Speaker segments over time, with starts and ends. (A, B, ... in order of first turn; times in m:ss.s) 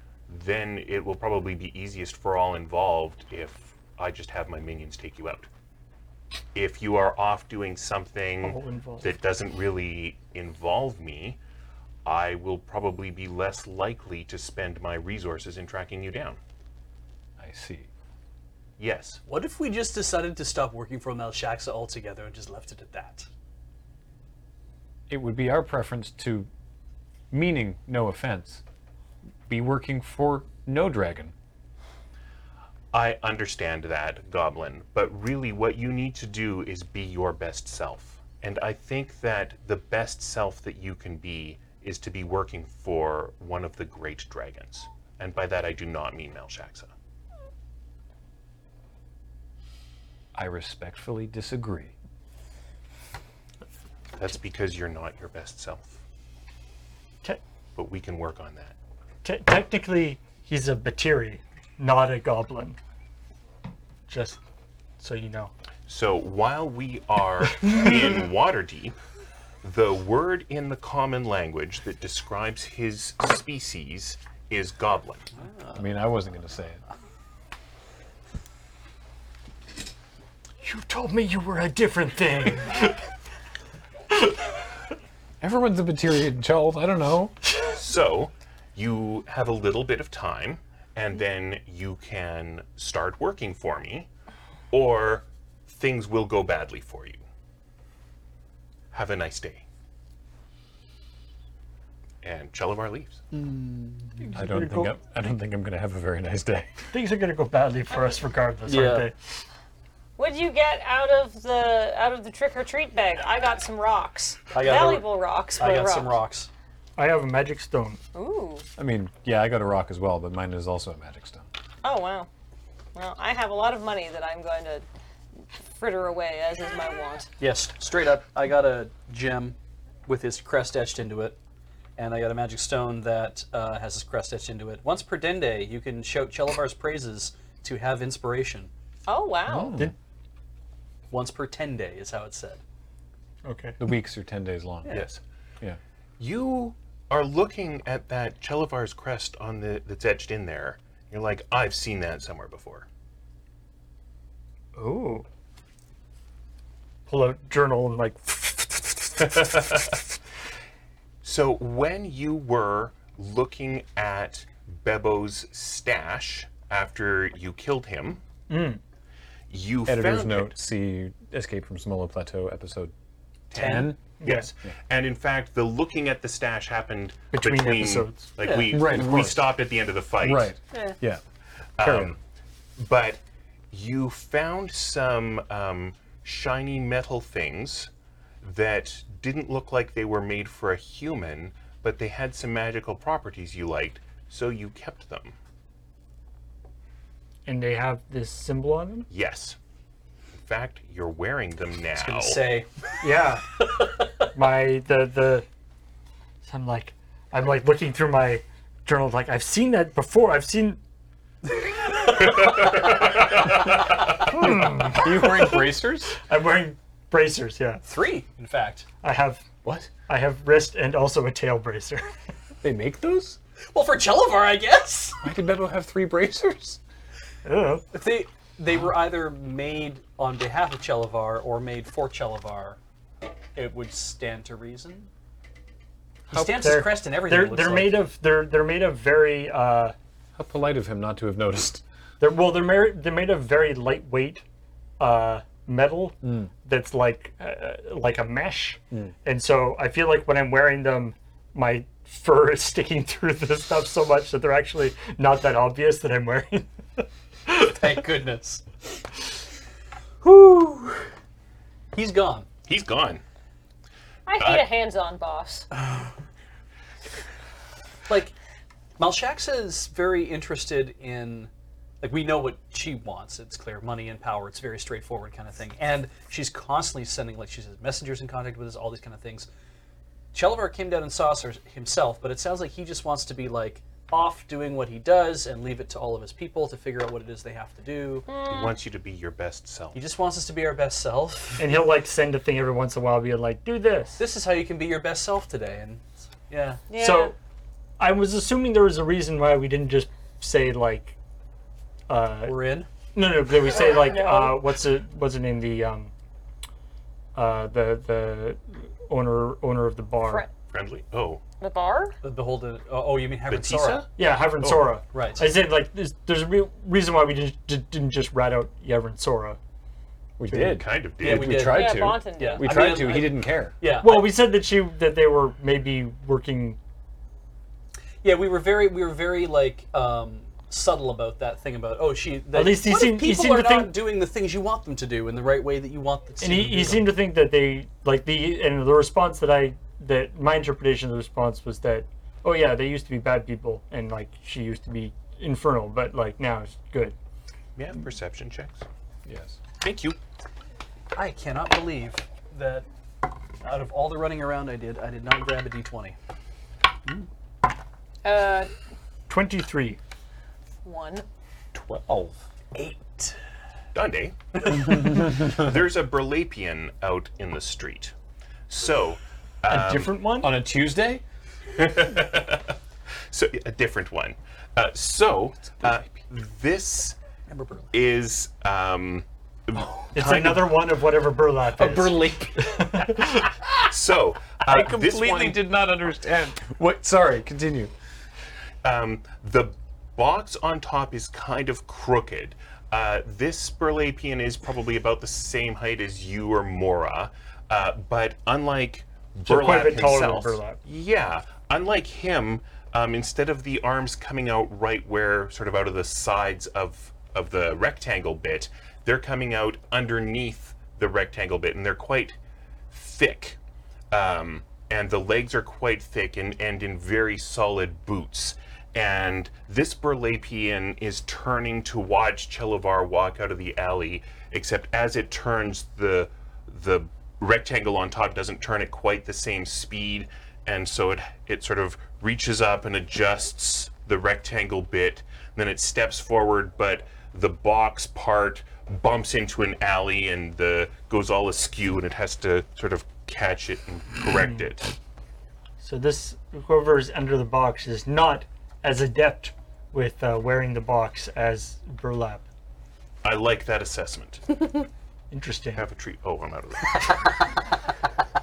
0:00.3-0:05.5 A
0:06.5-0:11.4 A
0:08.4-0:09.1 B
0:12.0-0:16.4 A
0:17.4-0:17.9 C
0:18.8-0:19.2 A
0:19.2-0:23.3 D
0:25.1-0:26.5 C
0:27.3-0:28.6 C
0:29.5-0:31.3 C
0:32.9-0:46.9 A
0:50.3-0:51.9 C
0:54.2-0:56.0 A
0:57.8-0:58.7 A
0:59.2-1:02.8 B
1:04.1-1:04.4 B
1:05.0-1:05.5 B
1:05.9-1:09.0 A
1:07.6-1:08.1 B
1:09.6-1:15.3 A
1:15.4-1:15.8 D
1:15.7-1:16.8 C
1:20.6-1:23.0 B
1:25.4-1:27.4 C
1:27.6-1:34.1 A
1:34.7-1:37.2 A
1:38.9-1:39.6 A
1:42.2-1:43.2 A
1:43.3-1:44.3 D
1:44.2-1:44.9 B
1:44.4-1:46.8 C
1:46.9-1:49.2 B
1:48.6-1:49.1 D
1:50.2-1:56.2 E
1:54.5-1:56.5 D
1:57.0-1:58.0 B
1:58.1-1:58.6 E
1:58.8-2:01.5 C
2:01.8-2:02.3 E
2:02.9-2:04.8 E
2:05.8-2:07.3 E
2:07.4-2:11.4 D
2:12.0-2:18.7 D
2:19.1-2:19.8 E
2:19.5-2:19.9 C
2:21.1-2:22.6 D
2:23.4-2:23.8 B
2:23.8-2:25.0 C
2:24.9-2:25.2 A
2:26.2-2:32.8 A
2:34.8-2:35.2 B
2:37.1-2:39.9 B
2:41.2-2:48.2 A
2:48.5-2:48.8 B
2:49.5-2:50.5 A
2:49.8-2:52.9 C
2:53.5-3:00.5 A
2:53.5-2:53.9 D
2:53.6-2:54.0 C
2:54.2-2:54.5 B
2:57.3-2:58.4 B
2:58.4-2:59.0 D
2:58.7-2:59.5 C
3:00.2-3:01.2 C
3:01.8-3:02.2 A
3:01.8-3:02.2 C
3:02.8-3:07.9 A
3:08.4-3:15.4 A
3:17.4-3:19.1 B
3:19.1-3:19.6 A
3:20.4-3:22.4 A
3:22.0-3:22.8 D
3:23.0-3:23.4 B
3:23.6-3:24.1 D
3:24.3-3:25.4 B
3:26.4-3:30.8 B
3:32.2-3:34.2 A
3:34.2-3:37.8 B
3:34.3-3:36.2 C
3:37.8-3:38.8 D
3:39.0-3:39.4 B
3:40.0-3:42.1 B
3:42.6-3:43.4 C
3:43.7-3:45.2 D
3:45.2-3:46.8 C
3:47.4-3:47.8 B
3:47.9-3:52.8 D
3:53.5-3:55.1 D
3:56.3-3:58.1 D
3:56.3-3:56.7 C
3:56.5-3:59.9 B
4:00.4-4:01.8 C
4:02.2-4:04.4 B
4:05.0-4:17.8 B
4:06.2-4:06.5 C
4:17.6-4:18.6 D
4:20.2-4:21.0 D
4:21.9-4:22.5 D
4:22.7-4:23.2 A
4:24.2-4:25.7 E
4:24.4-4:24.6 A
4:28.1-4:28.3 D
4:29.0-4:31.5 D
4:32.0-4:39.5 D
4:40.3-4:48.3 D
4:48.3-4:48.8 E
4:48.4-4:50.0 A
4:49.9-4:51.7 D
4:51.6-4:54.2 B
4:54.2-4:56.8 D
4:56.9-4:57.3 E
4:56.9-4:57.4 B
4:58.0-5:01.2 B
5:02.1-5:02.6 B
5:02.4-5:02.9 D
5:03.1-5:06.1 B
5:03.6-5:04.7 E
5:07.3-5:10.4 B
5:10.2-5:10.5 E
5:10.7-5:11.4 A
5:11.6-5:12.2 E
5:12.2-5:14.0 D
5:13.5-5:14.1 A
5:14.2-5:19.6 B
5:15.1-5:15.5 D
5:20.4-5:23.7 C
5:20.6-5:21.6 A
5:21.2-5:24.3 D
5:21.7-5:23.1 E
5:24.0-5:26.8 B
5:28.2-5:37.1 D
5:32.5-5:34.0 B
5:36.4-5:47.1 B
5:47.8-5:48.8 A
5:49.2-5:49.6 C
5:49.8-5:50.2 A
5:51.1-5:52.8 D
5:53.6-5:56.2 D
5:58.2-5:58.7 E
5:59.3-6:00.0 B
6:00.8-6:01.2 E
6:01.7-6:02.3 C
6:02.7-6:03.4 D
6:03.9-6:08.1 A
6:04.8-6:05.7 C
6:08.7-6:10.1 A
6:09.7-6:10.5 B
6:10.4-6:11.2 C
6:11.7-6:12.7 A
6:13.3-6:17.2 A
6:17.5-6:17.9 D
6:17.9-6:20.0 A
6:19.8-6:20.6 C
6:20.1-6:23.4 B
6:21.7-6:23.7 C
6:23.9-6:25.6 A
6:24.6-6:27.9 C
6:28.8-6:52.4 A
6:39.4-6:40.8 B
6:52.9-6:53.6 A
6:54.1-7:24.9 A
7:24.3-7:24.7 B
7:25.8-7:32.4 B
7:33.2-7:34.8 A
7:35.3-7:35.8 B
7:35.7-7:37.3 A